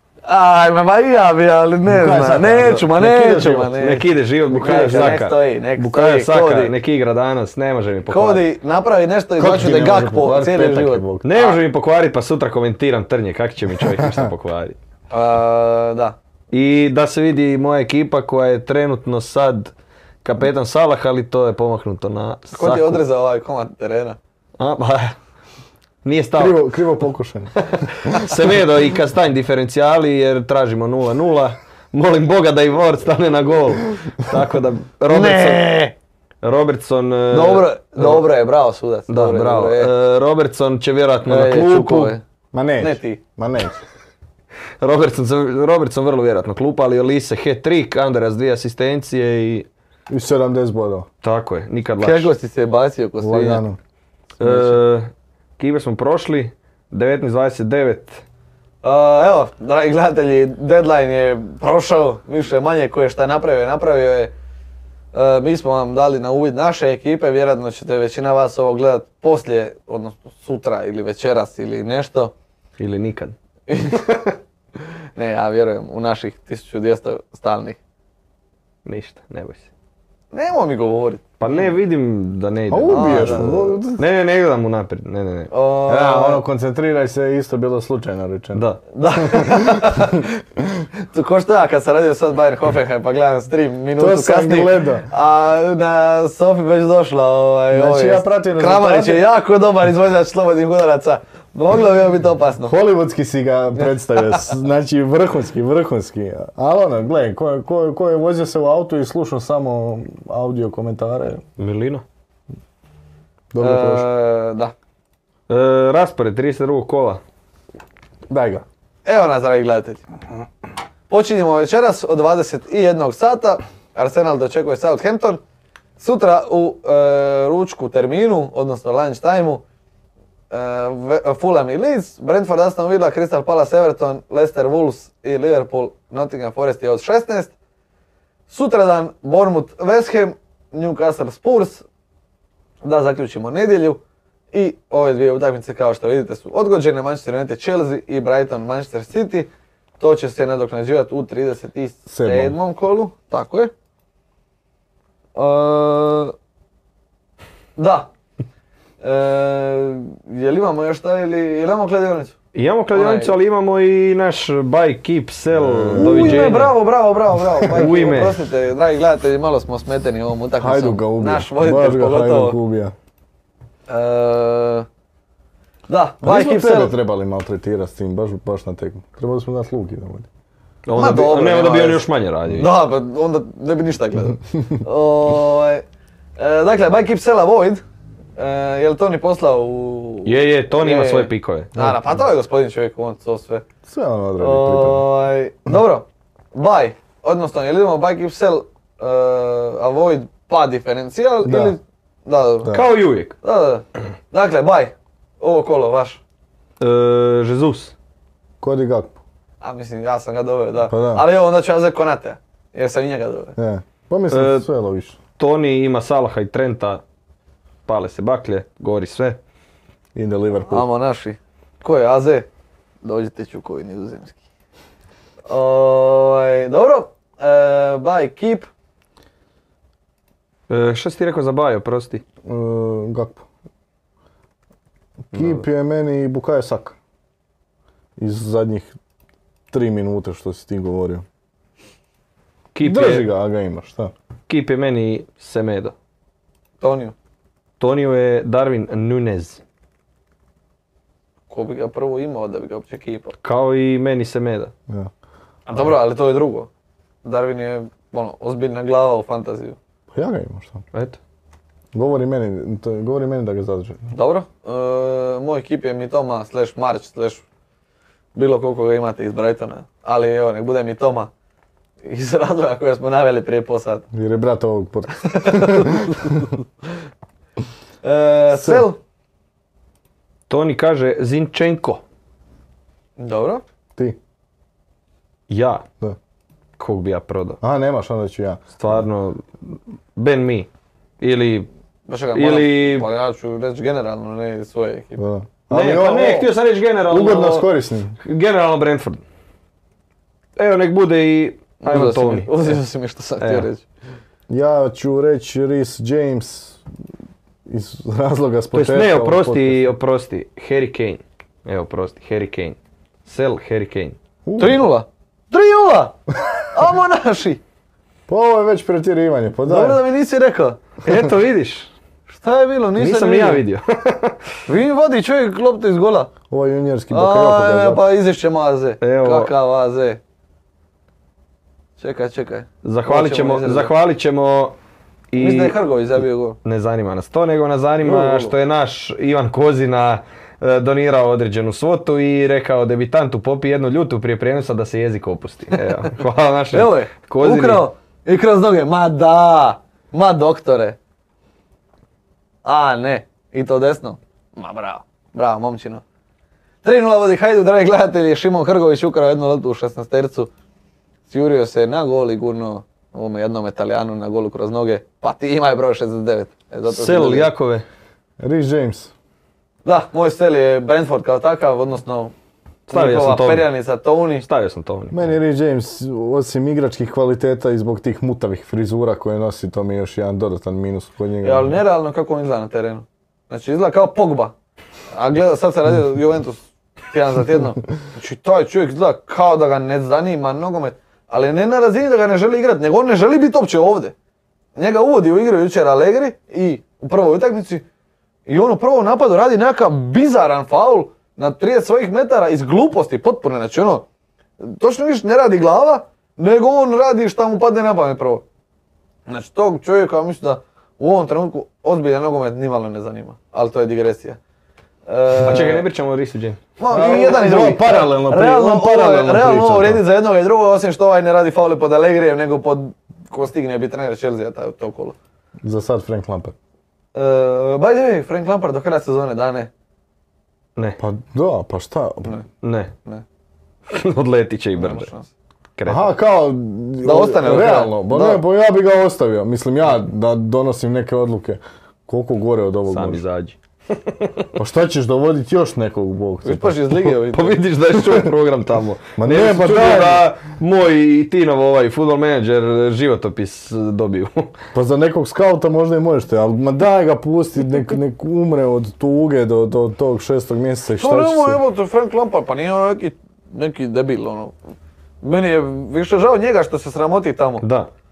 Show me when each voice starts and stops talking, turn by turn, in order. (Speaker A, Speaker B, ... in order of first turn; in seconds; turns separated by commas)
Speaker A: 0.3-6.7, Speaker B: 1.9-2.9, Speaker C: 2.5-8.4, Speaker A: 8.1-11.6, Speaker B: 9.4-11.3, Speaker C: 11.2-14.8, Speaker B: 13.8-14.3, Speaker A: 15.1-16.2, Speaker C: 16.5-23.0, Speaker A: 22.5-24.2, Speaker C: 24.6-25.1, Speaker C: 26.0-26.6, Speaker B: 26.4-27.6, Speaker C: 27.6-35.7, Speaker A: 35.1-36.0, Speaker C: 36.4-38.3, Speaker A: 37.3-39.9, Speaker C: 39.1-42.2, Speaker A: 41.3-42.2, Speaker B: 42.5-43.8, Speaker A: 42.8-43.2, Speaker C: 44.8-49.7, Speaker B: 50.1-51.1, Speaker C: 51.2-52.3, Speaker A: 52.0-53.6, Speaker B: 53.2-53.8, Speaker A: 54.4-54.8, Speaker C: 54.4-58.2, Speaker A: 58.8-64.3, Speaker A: 65.1-72.3, Speaker C: 72.8-73.3, Speaker A: 73.7-74.3, Speaker A: 75.2-77.8, Speaker C: 78.8-79.7, Speaker A: 80.3-81.7, Speaker C: 81.4-85.5, Speaker B: 82.7-84.0, Speaker A: 82.9-83.7, Speaker A: 85.5-86.4, Speaker B: 85.9-88.7, Speaker C: 88.5-88.8, Speaker A: 88.9-90.3, Speaker B: 89.2-90.9, Speaker A: 91.1-102.8, Speaker B: 94.0-95.1, Speaker B: 97.7-99.3, Speaker B: 102.7-111.4, Speaker A: 103.8-104.5, Speaker C: 111.6-112.0, Speaker B: 113.5-114.1, Speaker A: 113.6-114.7, Speaker C: 115.5-117.2, Speaker B: 118.3-118.7, Speaker A: 119.0-120.0, Speaker A: 121.1-125.4, Speaker A: 126.0-129.6, Speaker A: 130.5-137.5, Speaker A: 138.5-141.8, Speaker A: 142.8-144.0, Speaker A: 144.5-153.7, Speaker B: 152.1-152.6, Speaker A: 155.3-156.3, Speaker A: 157.8-158.1, Speaker A: 159.0-162.4, Speaker C: 162.5-166.8, Speaker A: 162.9-163.3, Speaker B: 165.5-166.6, Speaker A: 165.9-172.6, Speaker C: 167.7-168.4, Speaker B: 170.6-172.9, Speaker A: 173.9-174.9, Speaker A: 175.9-176.9, Speaker B: 176.2-180.3, Speaker C: 180.9-182.7, Speaker A: 180.9-185.8, Speaker A: 186.4-187.8, Speaker A: 188.4-193.7, Speaker C: 190.3-191.8, Speaker B: 191.8-192.1, Speaker B: 193.8-195.1, Speaker A: 194.4-202.8, Speaker B: 201.4-201.8, Speaker C: 202.7-203.3, Speaker A: 203.4-206.2, Speaker C: 206.8-207.9, Speaker B: 208.6-209.2, Speaker A: 209.6-213.6, Speaker B: 210.9-211.2, Speaker B: 213.6-215.2, Speaker C: 214.3-214.7, Speaker C: 215.4-217.0, Speaker C: 217.9-219.4, Speaker B: 220.2-220.9, Speaker A: 220.7-222.5, Speaker A: 223.0-224.4, Speaker A: 225.5-228.7, Speaker C: 230.7-232.2, Speaker B: 232.4-233.4, Speaker B: 235.3-237.0, Speaker B: 238.2-238.9, Speaker B: 239.7-241.2, Speaker C: 242.7-243.3, Speaker B: 242.8-244.1, Speaker C: 244.5-245.9, Speaker A: 246.8-247.1, Speaker C: 247.8-249.6, Speaker A: 251.5-253.3, Speaker C: 253.4-254.7, Speaker A: 255.7-256.7, Speaker A: 257.2-259.8, Speaker B: 260.1-260.9, Speaker C: 260.9-261.2, Speaker B: 261.9-264.1, Speaker A: 264.1-267.4, Speaker A: 268.4-271.3, Speaker A: 272.0-274.1, Speaker B: 274.1-276.5, Speaker A: 275.2-276.5, Speaker A: 278.0-279.0, Speaker B: 278.6-278.9, Speaker C: 280.5-282.0, Speaker A: 283.2-283.6, Speaker C: 285.5-285.9, Speaker C: 286.8-287.6, Speaker B: 287.6-288.8, Speaker C: 288.8-290.7, Speaker C: 291.2-291.7, Speaker A: 292.1-295.2, Speaker C: 292.3-293.1, Speaker B: 295.2-296.5, Speaker C: 295.7-297.7, Speaker B: 297.1-298.2, Speaker C: 298.2-299.2, Speaker C: 300.6-302.8, Speaker A: 301.8-303.9, Speaker C: 303.4-303.7, Speaker B: 304.5-306.8, Speaker B: 307.7-309.9, Speaker C: 308.7-314.2, Speaker B: 314.5-314.8, Speaker A: 314.6-316.2, Speaker A: 316.7-317.6, Speaker B: 318.3-320.0, Speaker A: 319.7-320.9, Speaker C: 321.0-321.9, Speaker A: 322.3-323.6, Speaker C: 323.0-324.5, Speaker A: 324.7-326.3, Speaker B: 326.5-328.0, Speaker A: 327.1-330.2, Speaker C: 329.0-329.5, Speaker A: 332.0-333.9, Speaker C: 332.8-334.8, Speaker C: 335.3-335.8, Speaker A: 335.4-336.6, Speaker C: 336.6-347.9, Speaker A: 338.0-338.6, Speaker A: 346.7-351.0, Speaker A: 352.6-356.0, Speaker A: 356.8-360.5, Speaker A: 361.3-367.5, Speaker C: 366.9-367.9, Speaker B: 368.4-369.1, Speaker A: 369.9-372.3, Speaker C: 372.9-373.7, Speaker A: 372.9-374.5, Speaker C: 374.4-375.4, Speaker B: 375.1-381.8, Speaker A: 381.4-384.5, Speaker A: 385.1-394.1, Speaker A: 394.8-397.9, Speaker A: 398.5-404.1, Speaker A: 404.6-408.4, Speaker A: 409.3-414.4, Speaker A: 415.1-415.9, Speaker C: 415.4-416.6, Speaker A: 416.8-425.2, Speaker B: 416.9-420.0, Speaker B: 425.6-426.6, Speaker A: 427.1-429.7, Speaker B: 431.0-432.3, Speaker C: 432.6-432.9, Speaker C: 433.9-435.1, Speaker A: 434.8-435.3, Speaker C: 435.8-436.1, Speaker B: 435.9-443.2, Speaker A: 437.0-438.4, Speaker C: 442.9-444.5, Speaker B: 444.6-446.9, Speaker A: 446.4-447.6, Speaker C: 447.1-454.6, Speaker B: 449.2-450.3, Speaker B: 454.7-461.6, Speaker A: 461.0-464.6, Speaker A: 465.2-467.6, Speaker C: 467.6-467.9